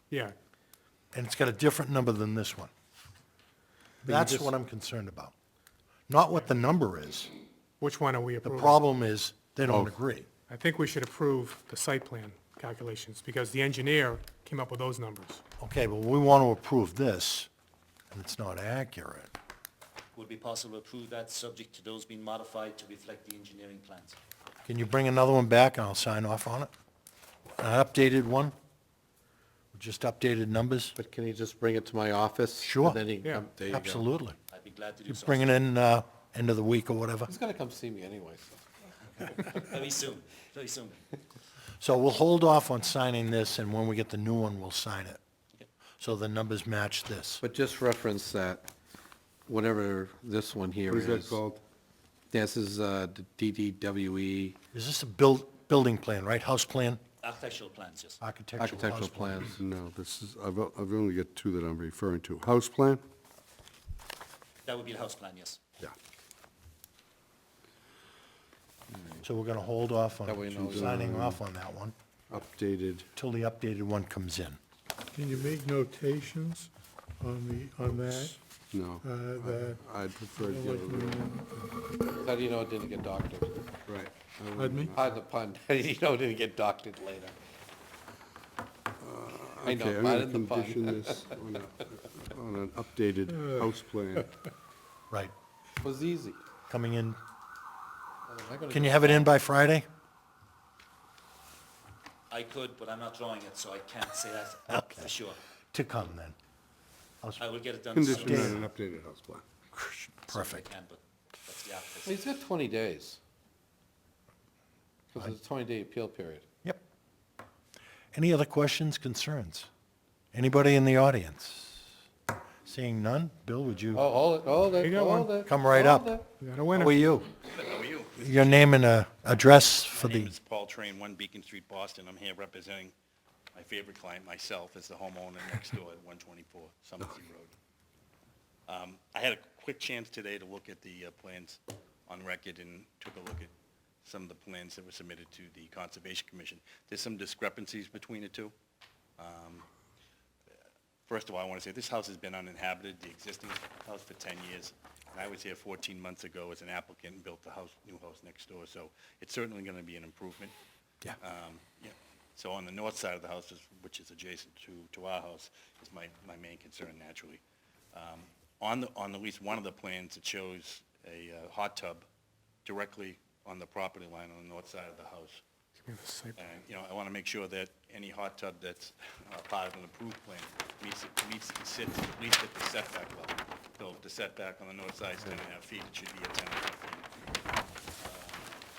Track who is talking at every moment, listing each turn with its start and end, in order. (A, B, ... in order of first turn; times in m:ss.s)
0:01.1-0:02.7 A
0:04.0-0:05.3 A
0:04.1-0:04.5 B
0:06.1-0:07.3 A
0:07.8-0:08.8 B
0:08.4-0:10.3 A
0:09.7-0:10.0 C
0:10.5-0:15.4 B
0:15.6-0:17.5 A
0:18.1-0:19.3 A
0:20.2-0:24.2 D
0:24.7-0:26.7 A
0:27.6-0:28.6 A
0:29.7-0:31.0 A
0:31.0-0:34.0 E
0:32.6-0:33.0 A
0:33.2-0:33.5 B
0:33.7-0:34.4 A
0:34.5-0:35.6 D
0:35.1-0:37.3 A
0:37.3-0:38.7 E
0:39.2-0:41.1 D
0:41.8-0:45.2 A
0:46.0-0:47.4 A
0:47.4-0:48.7 E
0:49.5-0:51.4 E
0:50.9-0:51.6 C
0:52.3-0:54.6 E
0:54.7-0:57.0 A
0:57.2-0:58.2 D
0:58.2-0:59.4 A
0:58.6-0:59.5 E
0:59.5-1:03.0 C
1:04.6-1:05.6 D
1:08.9-1:09.2 E
1:09.2-1:12.0 A
1:10.2-1:11.1 E
1:10.5-1:11.4 C
1:12.3-1:13.1 C
1:13.2-1:14.6 A
1:15.2-1:18.4 F
1:18.7-1:21.3 C
1:19.0-1:19.8 F
1:20.4-1:21.7 F
1:22.1-1:23.6 E
1:23.9-1:25.1 C
1:24.6-1:24.9 F
1:24.9-1:27.4 E
1:29.0-1:34.3 C
1:29.6-1:31.3 E
1:35.8-1:36.4 E
1:36.7-1:37.2 A
1:38.3-1:39.4 E
1:38.7-1:39.9 A
1:42.3-1:45.4 D
1:44.7-1:45.2 A
1:45.7-1:46.4 A
1:47.4-1:48.6 D
1:47.9-1:49.4 C
1:48.3-1:48.6 A
1:49.7-1:50.7 A
1:50.3-1:52.2 D
1:52.0-1:53.2 E
1:55.1-1:56.4 E
1:58.1-1:59.7 A
2:00.3-2:01.9 A
2:02.6-2:04.1 A
2:03.9-2:06.3 E
2:04.8-2:05.4 B
2:05.4-2:06.2 A
2:06.4-2:07.0 B
2:06.7-2:07.3 A
2:07.5-2:08.6 G
2:08.2-2:10.3 A
2:09.9-2:12.9 G
2:13.5-2:17.5 G
2:18.7-2:23.5 G
2:24.0-2:28.5 G
2:29.2-2:29.7 G
2:31.1-2:40.5 G
2:41.2-2:47.4 G
2:47.9-2:52.0 G
2:52.6-2:55.4 G
2:55.8-2:56.4 B
2:56.4-3:07.1 G
3:08.0-3:08.6 G